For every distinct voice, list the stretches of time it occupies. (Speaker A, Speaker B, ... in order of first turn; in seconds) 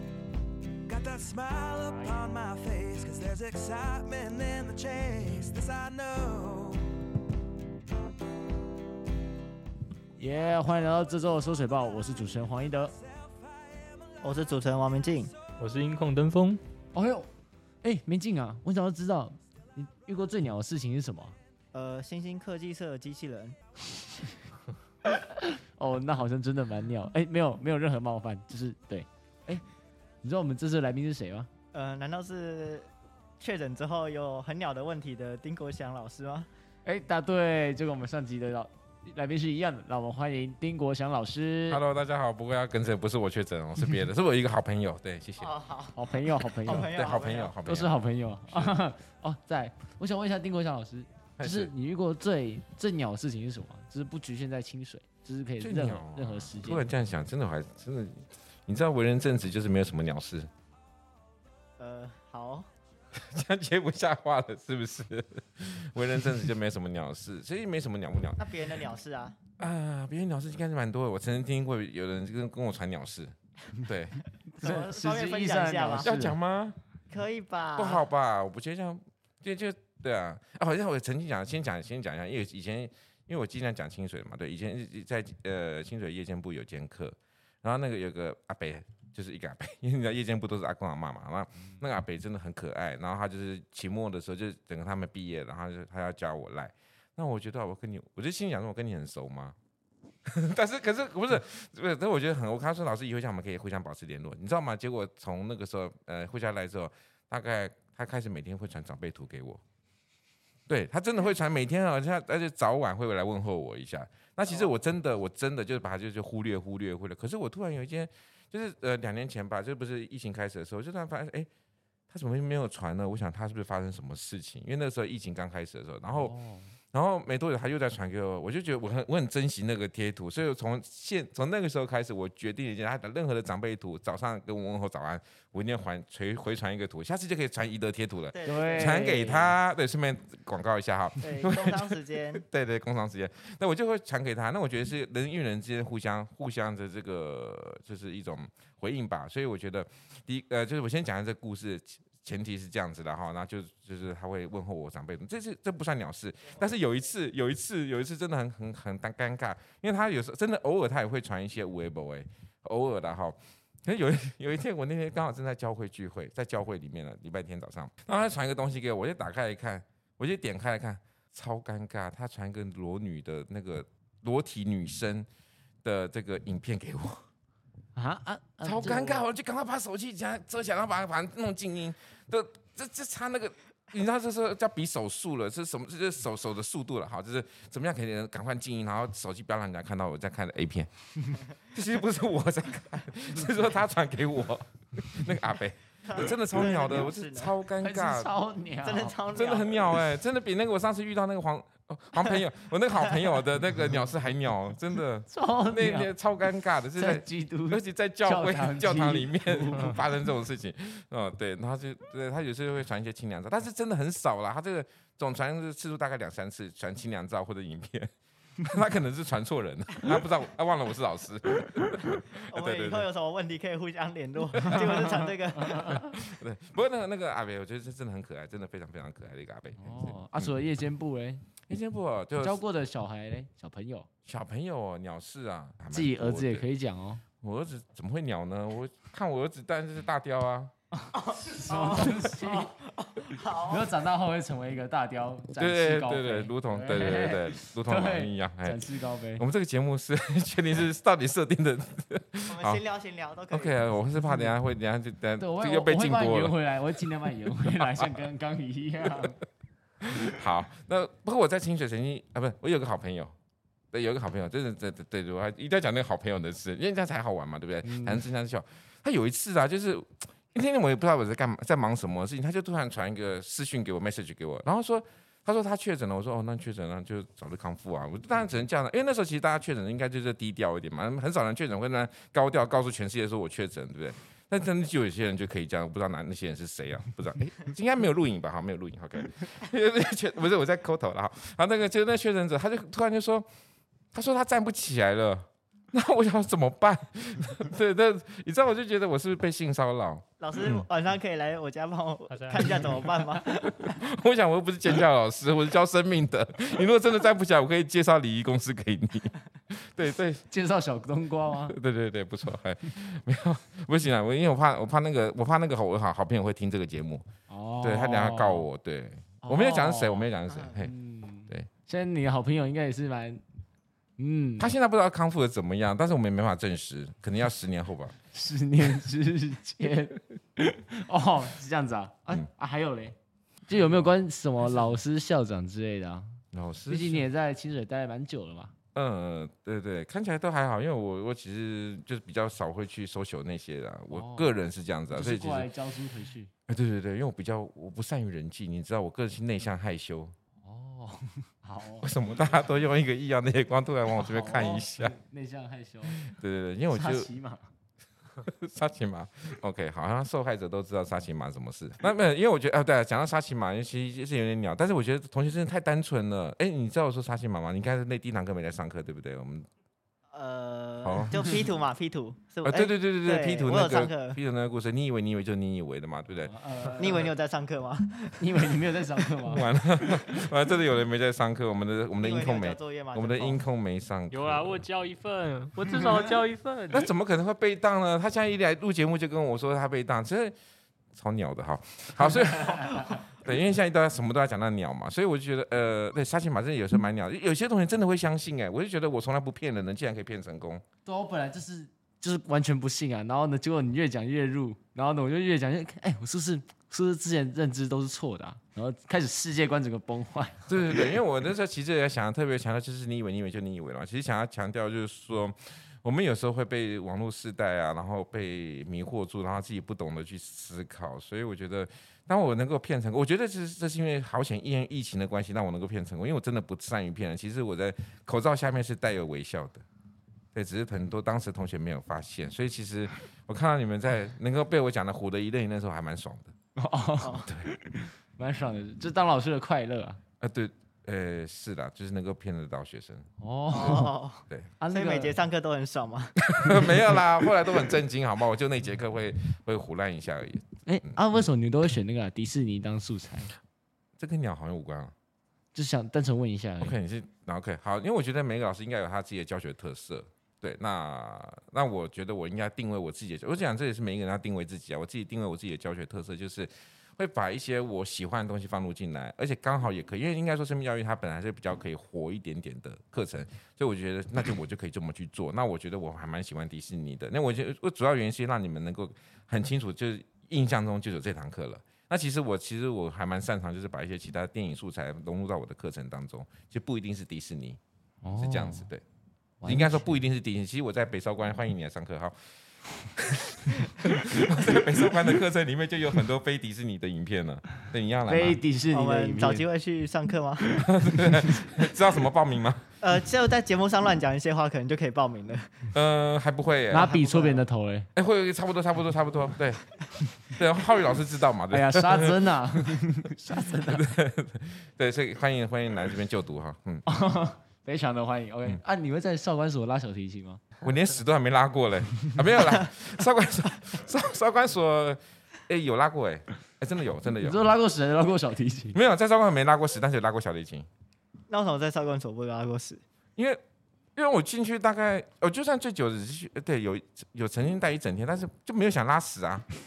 Speaker A: 0.8-7.0
Speaker B: 2.0-2.3, 15.6-16.6, 302.3-303.0, 384.3-387.0
Speaker C: 10.2-12.9, 16.9-17.3, 17.8-21.4, 25.1-29.6, 30.2-31.5, 36.8-41.8, 45.9-46.9, 47.6-56.8, 74.5-76.3, 126.1-126.7, 138.4-139.5, 177.9-179.2, 197.8-199.2, 205.3-206.1, 206.9-210.0, 229.8-231.4, 232.4-234.1, 235.9-237.2, 241.1-242.8, 243.5-249.4, 254.2-254.5, 255.4-259.4, 267.8-268.2, 310.5-311.8, 317.5-318.7, 319.4-323.4, 324.2-324.7, 328.3-333.1, 333.7-336.4, 336.9-338.7, 344.1-344.5, 345.1-346.5, 350.6-352.1, 354.1-356.2, 356.9-357.7, 376.4-377.3, 378.4-379.7, 401.0-410.7, 436.8-440.2, 443.4-444.1, 444.8-445.4, 446.6-446.9, 450.9-453.5, 455.7-456.9, 488.2-488.9, 489.6-490.2, 498.3-499.7, 506.9-508.1, 511.7-514.1, 517.0-520.6, 527.4-529.0
Speaker D: 14.2-15.3, 21.7-23.6, 31.7-32.9, 33.4-36.5, 45.4-47.5, 61.8-62.7, 68.4-69.4, 74.6-76.1, 77.1-78.0, 138.3-139.1, 141.2-142.4, 196.1-197.5, 198.8-199.8, 222.1-225.9, 241.3-243.8, 252.5-253.8, 300.4-304.0, 320.5-320.8, 370.3-374.4, 377.0-378.5, 382.2-383.6, 443.7-446.4, 498.9-500.7, 503.0-505.8, 507.0-507.6, 531.5-533.0
Speaker E: 41.7-45.5, 46.6-48.0, 48.5-48.8, 51.4-51.7, 55.6-60.5, 63.1-68.4, 69.6-74.2, 76.0-76.8, 77.8-99.5, 100.2-109.6, 110.7-121.5, 122.1-126.3, 126.9-175.3, 175.8-177.2, 178.6-198.3, 199.3-218.1, 218.6-223.1, 224.5-230.6, 231.7-232.6, 234.2-236.7, 237.4-240.7, 245.6-252.8, 253.5-256.6, 257.5-258.1, 260.0-263.3, 263.9-293.5, 294.1-300.9, 303.6-310.4, 311.5-317.2, 317.8-320.9, 324.6-328.1, 333.7-334.1, 336.5-337.3, 338.9-345.7, 346.7-350.3, 352.0-355.1, 356.1-357.3, 358.4-369.7, 371.0-371.7, 372.6-376.5, 379.4-384.9, 386.9-390.5, 391.1-400.8, 410.7-429.8, 430.5-436.5, 437.4-437.7, 440.4-443.3, 444.5-444.7, 446.4-451.2, 454.2-455.1, 456.8-487.8, 488.4-489.0, 489.6-492.3, 493.1-498.6, 500.7-502.8, 505.9-507.1, 508.1-513.0, 513.6-517.0, 520.8-527.7, 528.9-530.9, 534.1-539.6